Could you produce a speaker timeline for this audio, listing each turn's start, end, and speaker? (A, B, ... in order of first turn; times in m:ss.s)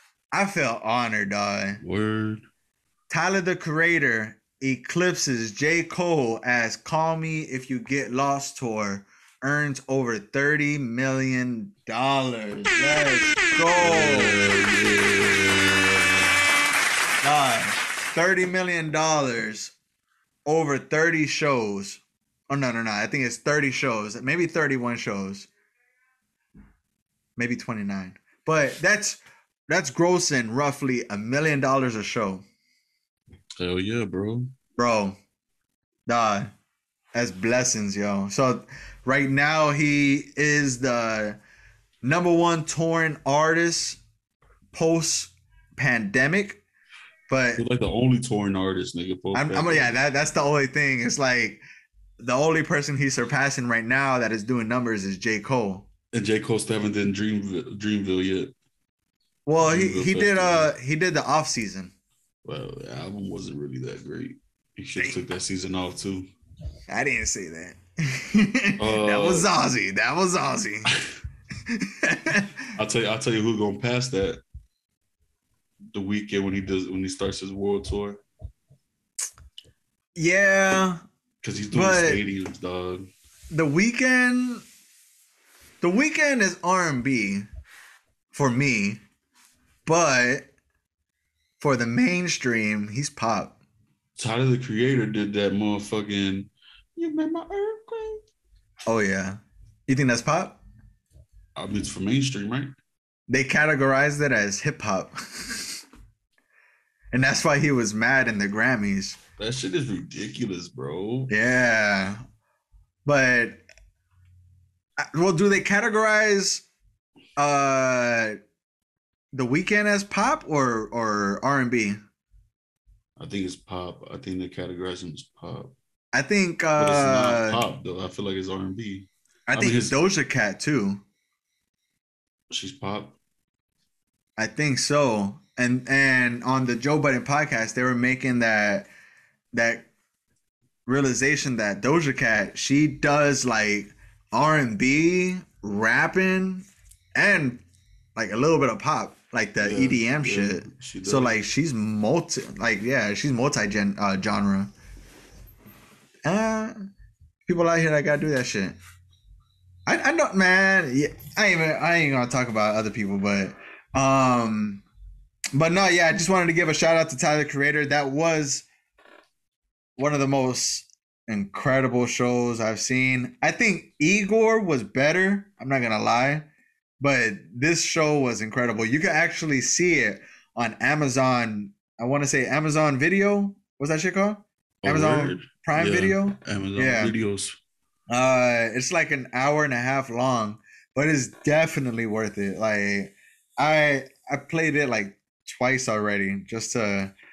0:00.3-0:01.8 A
0:01.8-0:02.4 B
0:03.1-0:14.4 A
0:13.8-0:16.4 B
0:17.2-0:19.7 A
0:20.4-0:25.5 A
0:27.4-0:32.4 A
0:33.6-0:34.5 B
0:34.8-0:35.2 A
0:36.1-0:36.5 A
0:37.1-0:41.4 A
0:42.0-0:44.0 A
0:44.7-0:46.6 A
0:47.3-0:47.6 A
0:47.6-0:49.9 B
0:49.3-0:51.6 A
0:52.2-0:55.9 A
0:56.1-0:58.5 B
0:59.4-1:01.9 A
0:59.6-1:00.7 B
1:02.4-1:06.3 B
1:05.0-1:05.2 A
1:06.9-1:10.9 A
1:08.8-1:09.5 B
1:11.7-1:12.6 A
1:12.8-1:14.4 B
1:15.9-1:18.2 B
1:20.2-1:21.0 A
1:21.4-1:23.1 B
1:21.7-1:22.2 A
1:23.5-1:24.6 A
1:25.8-1:27.4 A
1:28.3-1:29.0 A
1:29.8-1:30.5 A
1:31.6-1:33.6 A
1:34.2-1:38.2 B
1:38.9-1:40.6 A
1:41.6-1:42.8 B
1:43.3-1:45.6 A
1:47.1-1:49.2 A
1:49.4-1:51.3 B
1:51.3-1:52.2 A
1:53.0-1:53.6 A
1:55.1-1:56.6 A
1:57.4-1:58.4 A
1:59.3-2:02.0 A
2:03.2-2:05.7 B
2:06.1-2:07.6 A
2:06.8-2:09.9 B
2:09.5-2:11.0 A
2:12.5-2:13.2 B
2:14.4-2:18.9 A
2:19.5-2:19.9 A
2:20.8-2:27.6 A
2:28.2-2:34.7 A
2:29.6-2:31.4 B
2:36.2-2:36.7 A
2:37.4-2:38.8 A
2:39.9-2:44.8 A
2:45.5-2:48.6 A
2:50.0-2:56.5 A
2:57.0-3:07.1 A
3:04.8-3:07.6 B
3:08.1-3:17.1 A